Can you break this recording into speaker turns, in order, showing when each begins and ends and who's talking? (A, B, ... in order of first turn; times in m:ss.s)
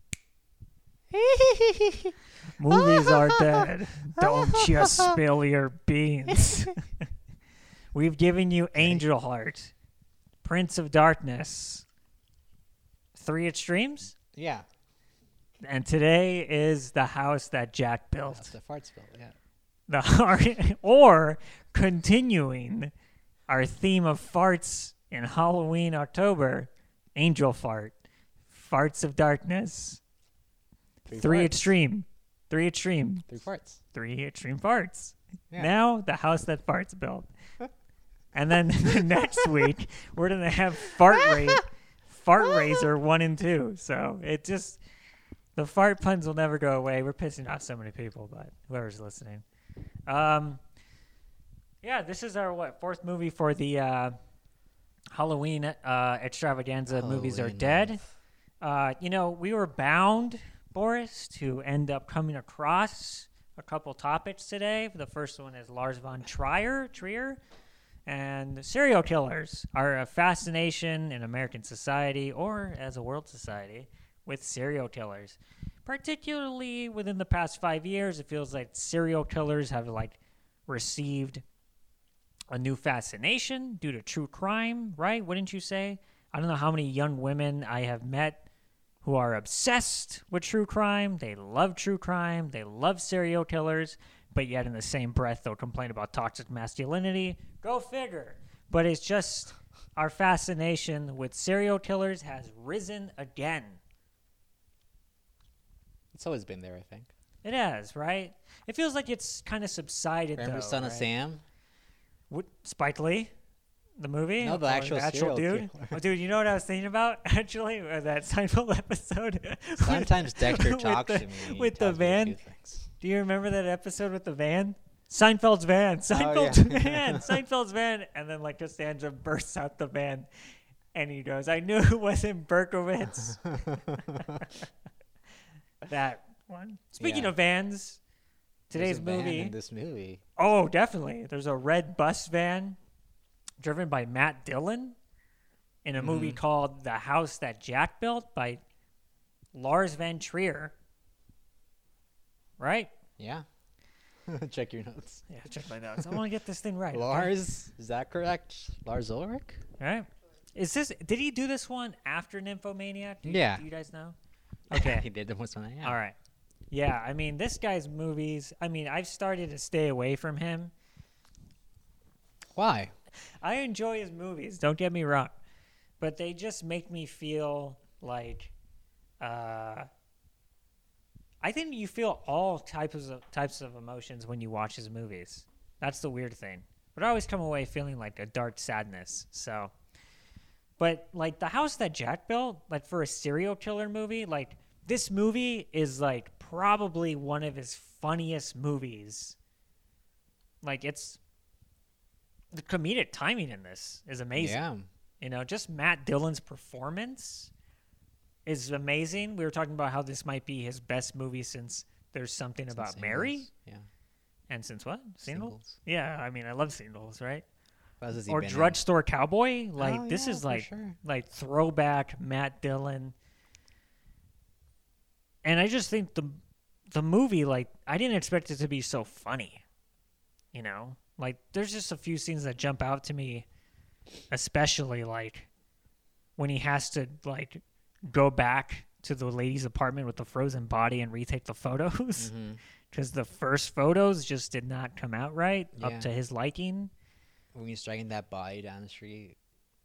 0:01.1-0:02.2 A
0:02.6-0:06.9 B
0:02.7-0:05.2 A
0:06.3-0:06.7 A
0:07.9-0:09.7 B
0:08.8-0:09.0 A
0:10.4-0:11.8 B
0:13.2-0:14.2 B
0:14.3-0:14.7 A
0:15.6-0:18.5 B
0:18.3-0:19.4 A
0:19.9-0:22.9 B
0:23.5-0:28.0 B
0:28.5-0:30.0 B
0:31.1-0:31.7 A
0:31.1-0:33.3 B
0:33.3-0:33.8 A
0:33.9-0:37.3 B
0:38.3-0:44.8 B
0:39.0-0:39.4 A
0:41.2-0:41.6 A
0:45.6-0:49.4 B
0:50.1-0:50.6 B
0:51.8-0:54.2 B
0:55.1-0:58.0 B
0:56.9-0:58.0 A
0:58.6-1:07.4 B
1:08.1-1:21.4 B
1:22.5-1:28.5 B
1:29.0-1:43.8 B
1:46.1-1:47.1 A
1:47.4-1:51.1 B
1:50.4-1:51.4 A
1:52.3-1:53.3 B
1:54.0-2:02.4 B
1:54.4-1:56.0 A
1:59.8-2:02.9 A
2:03.0-2:10.3 B
2:06.1-2:07.4 A
2:10.9-2:14.4 B
2:13.2-2:14.4 A
2:15.8-2:18.0 B
2:17.0-2:17.3 A
2:18.7-2:19.6 B
2:18.7-2:20.2 A
2:20.4-2:22.8 B
2:23.6-2:25.0 B
2:25.8-2:28.6 B
2:26.0-2:26.4 A
2:29.5-2:30.7 B
2:32.6-2:32.9 B
2:33.2-2:33.5 A
2:34.3-2:35.2 A
2:35.3-2:37.3 B
2:36.9-2:39.6 A
2:39.8-2:44.2 B
2:43.3-2:43.6 A
2:44.7-2:45.1 B
2:44.7-2:46.0 A
2:45.8-2:46.2 B
2:46.7-2:50.7 B
2:52.6-2:52.9 A
2:53.4-2:55.3 B
2:56.0-2:58.5 B
2:59.2-2:59.9 B
3:01.4-3:09.7 B
3:10.8-3:19.4 B
3:20.6-3:21.2 B
3:22.5-3:24.6 B
3:24.4-3:24.9 A
3:25.2-3:27.5 B
3:28.5-3:33.5 B
3:32.7-3:33.9 A
3:34.5-3:37.4 B
3:35.3-3:35.8 A
3:38.0-3:38.8 A
3:38.2-3:43.2 B
3:39.8-3:41.0 A
3:45.4-3:49.6 B
3:50.5-3:53.5 B
3:54.3-3:55.5 B
3:56.4-4:02.3 B
4:02.2-4:02.6 A
4:02.9-4:06.9 B
4:05.8-4:06.1 A
4:07.5-4:09.4 A